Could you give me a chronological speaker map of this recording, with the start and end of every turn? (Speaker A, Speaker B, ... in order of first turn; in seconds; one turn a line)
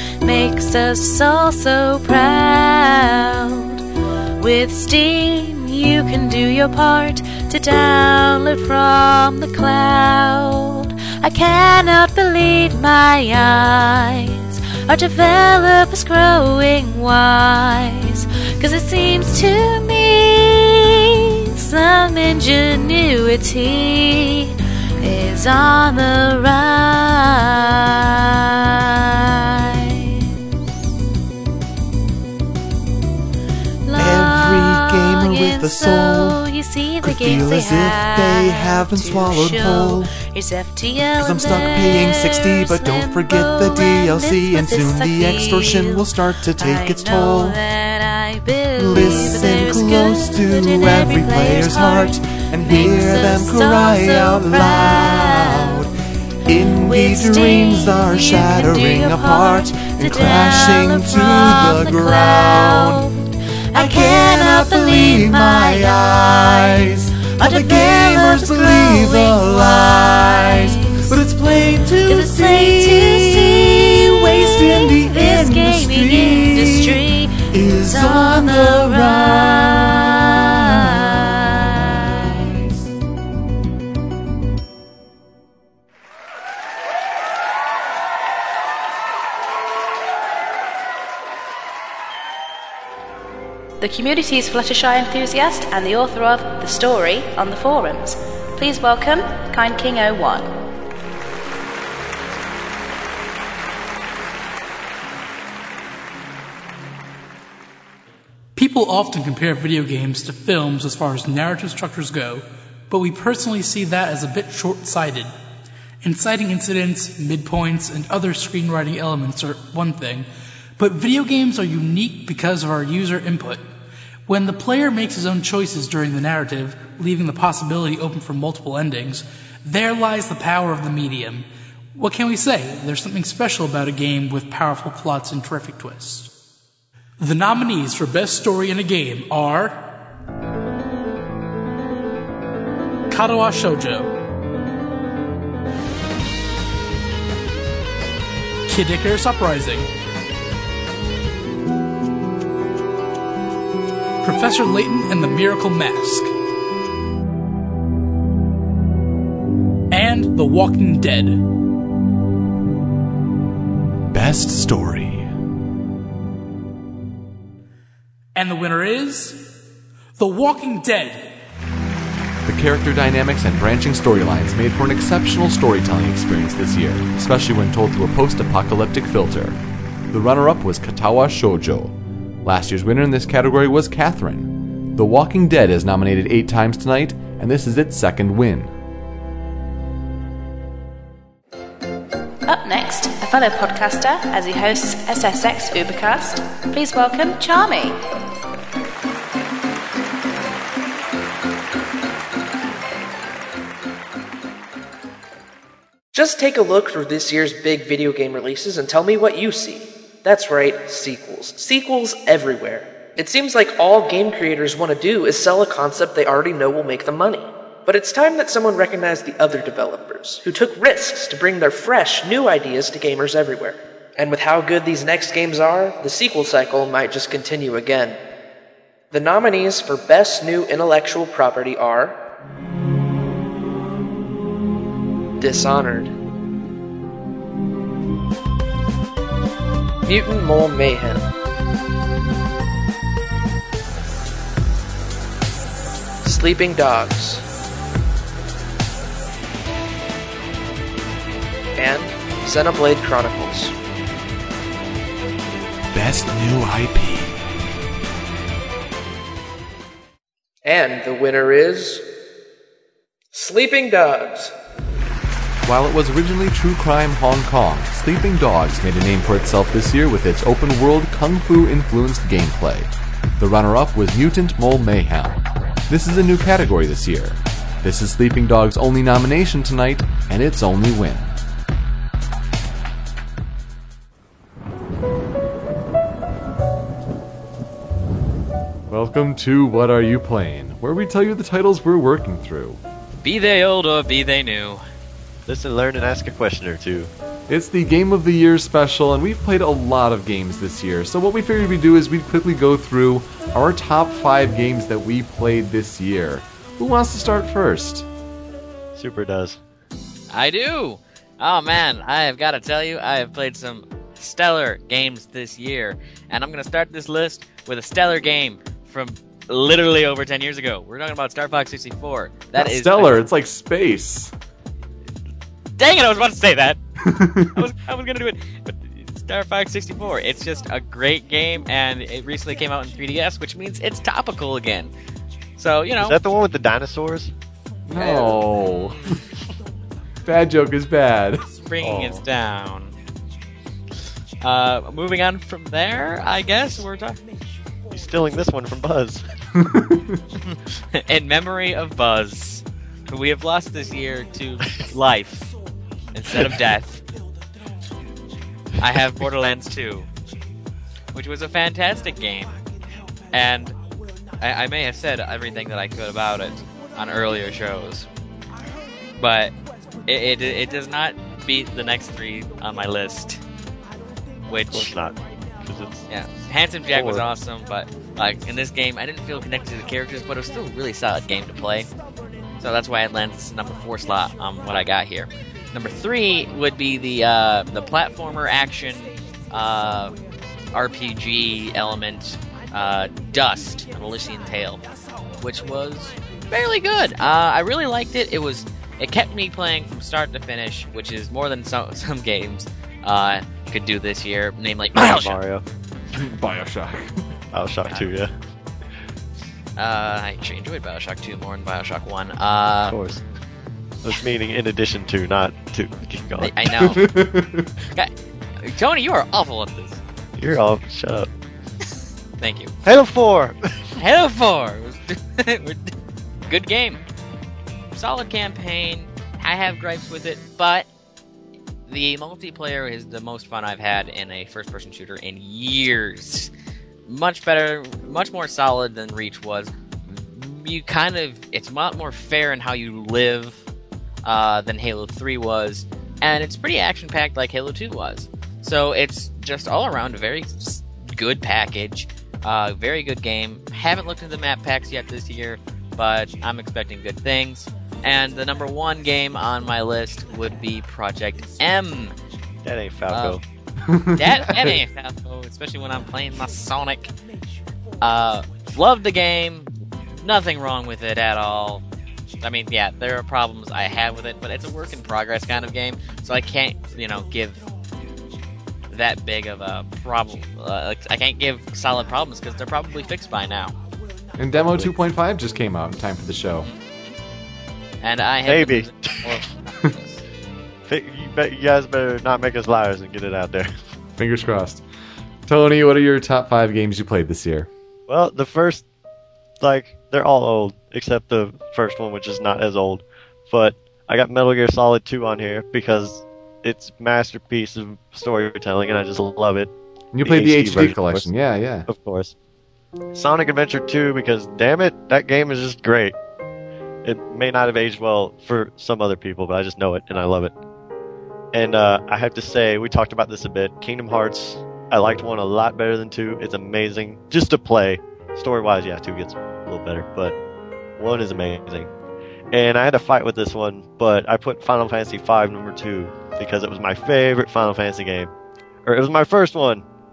Speaker A: 0.2-3.8
Speaker A: 4.4-30.3
Speaker A: 33.9-55.8
Speaker B: 34.0-36.4
Speaker B: 37.0-40.1
Speaker B: 41.2-47.6
Speaker B: 48.8-55.9
Speaker B: 56.5-63.0
Speaker A: 56.8-66.8
Speaker B: 63.8-77.0
Speaker A: 67.4-71.2
Speaker A: 72.1-82.3
Speaker B: 77.5-80.6
Speaker C: 93.8-100.5
Speaker D: 108.6-115.3
Speaker D: 116.0-120.2
Speaker D: 120.8-123.6
Speaker D: 124.3-131.4
Speaker D: 132.0-136.3
Speaker D: 137.2-139.7
Speaker D: 143.1-144.0
Speaker D: 148.7-149.9
Speaker D: 154.2-156.3
Speaker D: 160.0-161.3
Speaker B: 164.1-165.3
Speaker D: 168.4-169.4
Speaker D: 170.2-171.2
Speaker B: 172.4-179.6
Speaker B: 180.1-188.7
Speaker C: 192.5-198.0
Speaker E: 206.1-228.2
Speaker E: 229.1-232.2
Speaker E: 235.4-236.2
Speaker E: 240.1-241.3
Speaker E: 246.2-247.4
Speaker E: 251.8-253.7
Speaker B: 255.9-257.5
Speaker E: 260.6-262.0
Speaker E: 263.3-264.5
Speaker B: 265.6-275.4
Speaker B: 275.9-281.3
Speaker B: 288.9-292.8
Speaker F: 293.2-294.8
Speaker G: 295.5-297.1
Speaker B: 297.5-308.1
Speaker G: 308.9-309.6
Speaker F: 310.3-323.2
Speaker B: 322.6-324.3
Speaker F: 325.8-326.8
Speaker B: 327.1-327.5
Speaker F: 327.6-334.9
Speaker F: 335.6-336.2
Speaker G: 336.0-337.3
Speaker B: 337.9-339.1
Speaker B: 340.2-342.2
Speaker F: 341.6-342.9
Speaker F: 344.4-347.2
Speaker G: 347.9-349.2
Speaker B: 349.7-350.1
Speaker F: 350.5-355.5
Speaker F: 356.1-357.0
Speaker F: 358.8-360.1
Speaker F: 361.1-362.6
Speaker F: 363.3-363.8
Speaker F: 364.4-368.1
Speaker F: 369.2-369.5
Speaker F: 370.1-373.4
Speaker F: 374.5-374.9
Speaker G: 374.7-376.1
Speaker F: 376.1-381.9
Speaker G: 376.9-377.2
Speaker F: 382.6-390.1
Speaker F: 390.7-394.8
Speaker F: 395.4-405.4
Speaker G: 404.9-405.6
Speaker B: 406.2-407.1
Speaker G: 407.5-408.3
Speaker F: 407.9-408.1
Speaker F: 409.8-413.0
Speaker G: 412.9-413.2
Speaker G: 414.0-416.6
Speaker F: 416.4-417.0
Speaker B: 416.8-417.7
Speaker F: 417.9-420.0
Speaker G: 420.4-421.3
Speaker F: 422.4-422.7
Speaker G: 422.9-423.6
Speaker F: 424.0-425.9
Speaker F: 426.5-427.0
Speaker F: 427.9-430.9
Speaker F: 431.9-436.5
Speaker F: 437.1-443.6
Speaker F: 444.2-462.1
Speaker G: 462.6-463.4
Speaker F: 463.1-463.4
Speaker B: 463.9-464.7
Speaker F: 464.2-467.1
Speaker F: 468.0-471.8
Speaker F: 472.4-477.6
Speaker F: 478.9-483.7
Speaker B: 484.4-486.7
Speaker F: 488.0-488.9
Speaker G: 488.4-489.5
Speaker G: 490.9-493.7
Speaker B: 494.2-494.8
Speaker B: 495.5-497.7
Speaker G: 498.1-498.8
Speaker G: 499.6-509.7
Speaker B: 510.1-511.9
Speaker G: 510.2-511.3
Speaker G: 511.9-512.3
Speaker G: 513.1-516.1
Speaker G: 517.0-520.5
Speaker G: 521.5-530.4
Speaker G: 531.0-531.9
Speaker G: 532.5-538.3
Speaker G: 538.9-539.9